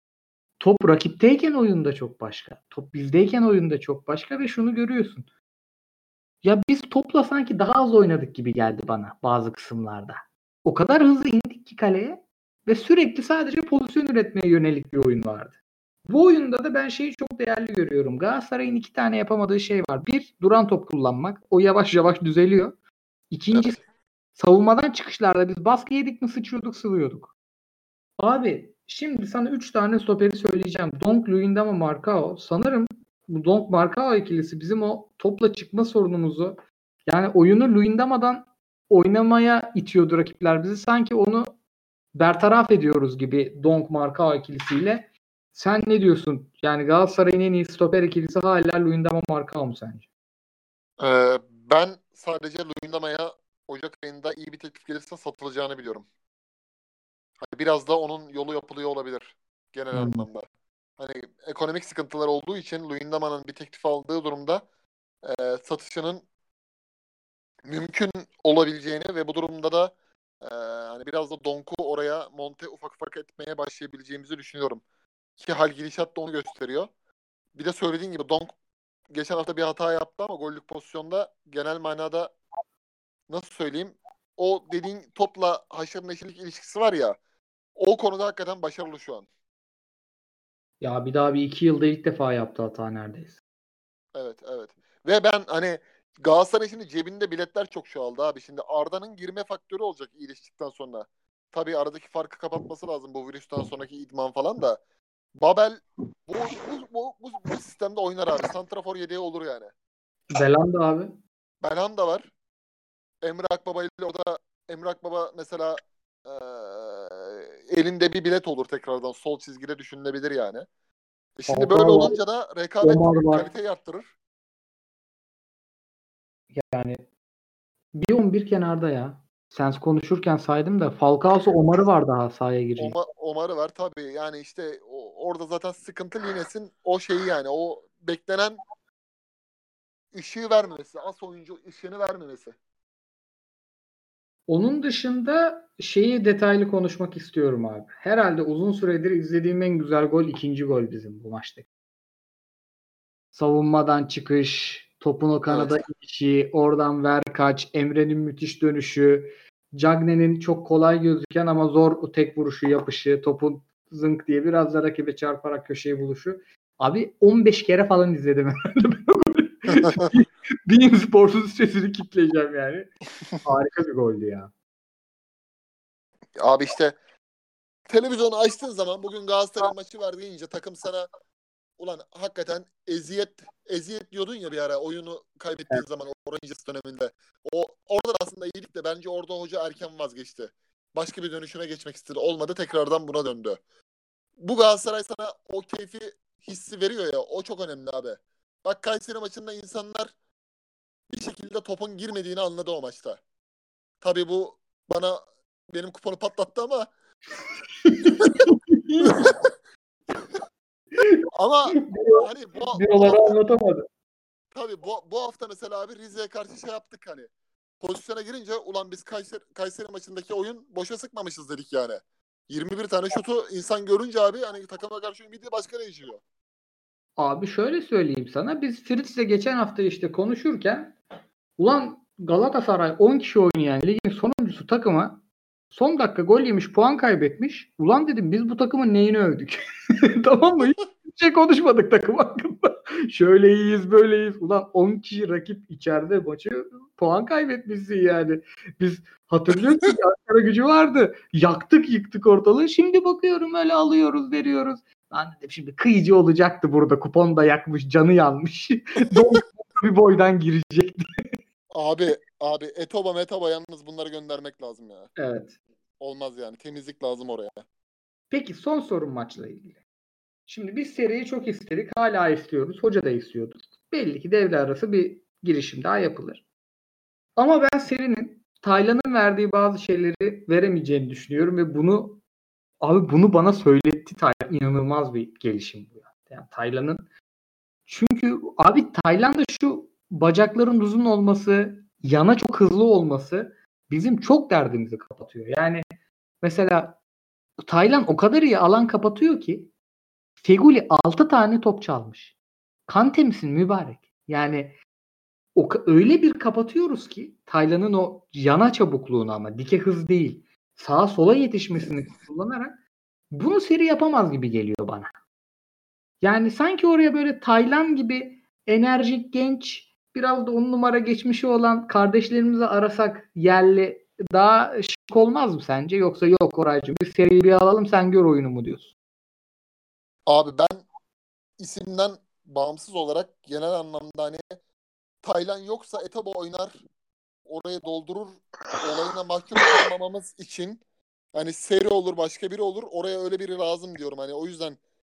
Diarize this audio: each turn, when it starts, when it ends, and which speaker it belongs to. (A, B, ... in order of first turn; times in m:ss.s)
0:00.6-0:05.3 A
0:06.4-0:22.8 A
0:23.3-0:23.8 A
0:24.4-0:27.3 A
0:28.2-0:41.6 A
0:42.1-0:50.1 A
0:51.0-0:56.1 B
0:57.4-1:00.4 B
0:59.9-1:00.3 A
1:01.0-1:04.6 B
1:05.2-1:06.3 B
1:07.7-1:14.8 B
1:15.4-1:16.9 B
1:17.6-1:18.5 B
1:19.1-1:22.3 B
1:23.3-1:27.2 B
1:27.8-1:29.3 B
1:30.8-1:33.4 A
1:34.2-1:44.8 B
1:45.4-1:49.7 B
1:50.3-1:51.2 A
1:51.6-1:52.3 B
1:53.2-2:00.7 B
2:01.4-2:04.1 B
2:01.5-2:02.2 A
2:02.8-2:03.5 A
2:06.5-2:07.1 A
2:08.0-2:13.0 A
2:12.8-2:18.6 B
2:20.1-2:22.6 B
2:24.5-2:31.7 A
2:33.3-2:54.5 A
2:35.5-2:35.8 B
2:56.4-2:57.0 B
2:57.9-3:01.1 B
3:01.8-3:13.6 B
3:14.4-3:20.1 B
3:21.1-3:23.2 B
3:24.0-3:26.9 B
3:27.8-3:29.2 A
3:28.1-3:28.4 B
3:29.0-3:29.4 B
3:31.3-3:33.4 B
3:31.8-3:33.8 A
3:34.5-3:46.2 B
3:47.2-3:51.0 A
3:51.6-4:21.1 A
4:21.7-4:25.1 B
4:25.2-4:25.6 A
4:26.0-4:27.6 B
4:28.3-4:29.8 A
4:30.5-4:36.4 A
4:37.4-4:42.2 A
4:42.8-4:47.1 A
4:47.9-4:55.9 A
4:56.4-4:57.0 A
4:57.6-4:59.7 A
5:00.4-5:02.4 A
5:02.9-5:04.8 A
5:05.6-5:12.8 A
5:13.3-5:15.2 A
5:16.2-5:28.9 A
5:30.3-5:30.9 B
5:31.6-5:34.6 B
5:35.2-5:36.8 B
5:37.5-5:40.8 B
5:41.3-5:44.8 B